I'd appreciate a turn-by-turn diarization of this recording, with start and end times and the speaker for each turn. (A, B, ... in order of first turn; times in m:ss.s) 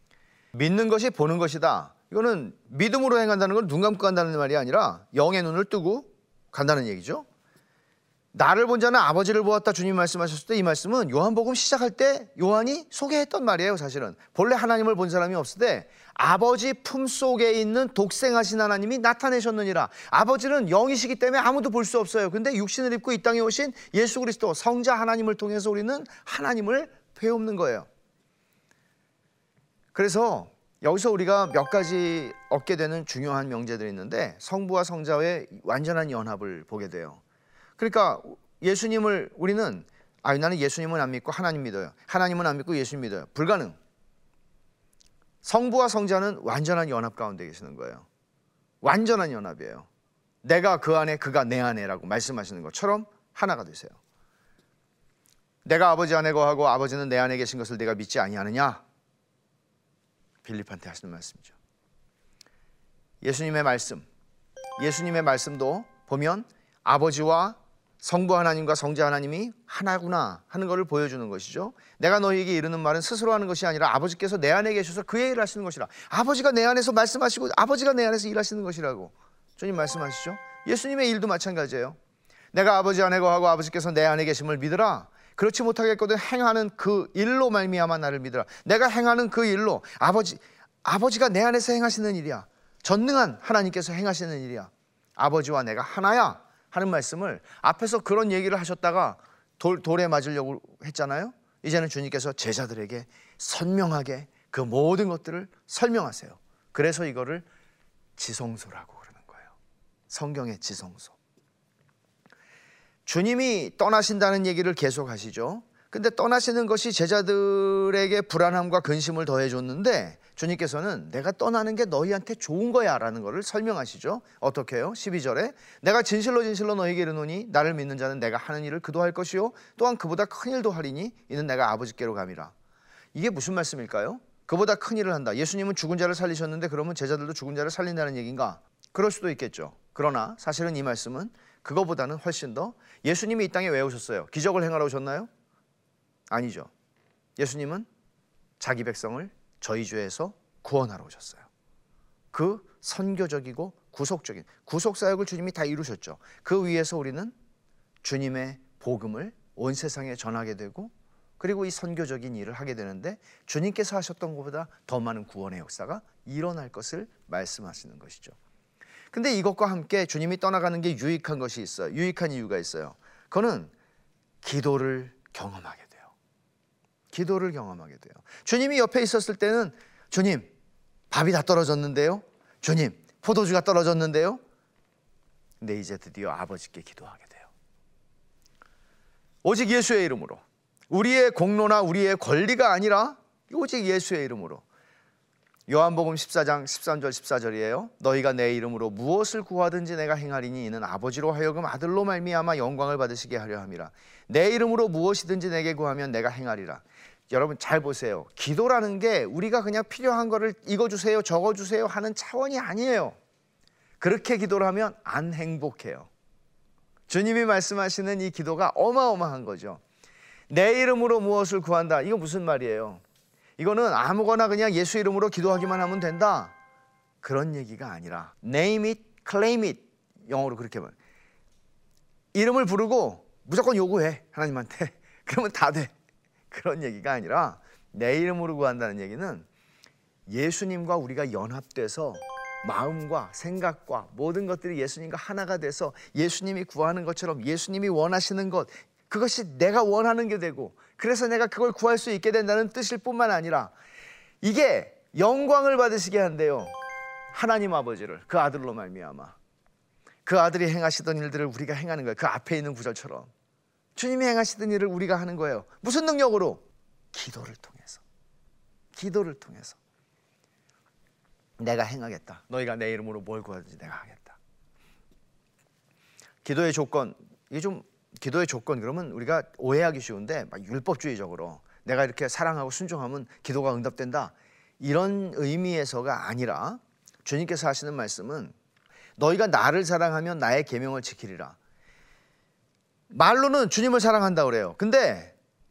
0:00.5-0:07.3 A
0:08.3-0:27.9 A
0:29.9-0:37.2 A
0:37.8-0:43.8 A
0:45.4-0:48.1 A
0:48.8-0:49.9 A
0:50.4-0:54.0 A
0:55.6-0:58.8 A
1:00.4-1:01.5 A
1:03.2-1:04.1 A
1:04.8-1:22.0 A
1:22.5-1:47.5 A
1:48.2-1:49.5 A
1:50.1-1:51.2 A
1:53.1-2:12.5 A
2:13.1-2:25.3 A
2:26.3-2:26.7 A
2:27.4-2:27.9 A
2:28.6-2:31.5 A
2:32.3-2:37.3 A
2:38.0-2:48.4 A
2:49.1-2:53.7 A
2:54.4-2:56.1 A
2:57.1-3:00.5 A
3:01.1-3:04.4 A
3:05.6-3:07.5 A
3:09.4-3:14.6 A
3:15.7-3:33.2 A
3:34.0-3:36.1 A
3:37.1-3:39.8 A
3:40.5-3:43.0 A
3:43.6-3:46.5 A
3:47.2-3:51.0 A
3:52.3-3:55.9 A
3:56.5-3:59.5 A
4:00.3-4:13.7 A
4:14.4-4:16.8 A
4:17.3-4:19.4 A
4:20.3-4:23.3 A
4:24.0-4:28.0 A
4:28.9-4:29.8 A
4:31.6-4:34.4 A
4:36.4-4:48.5 A
4:49.2-4:51.6 A
4:53.1-4:55.3 A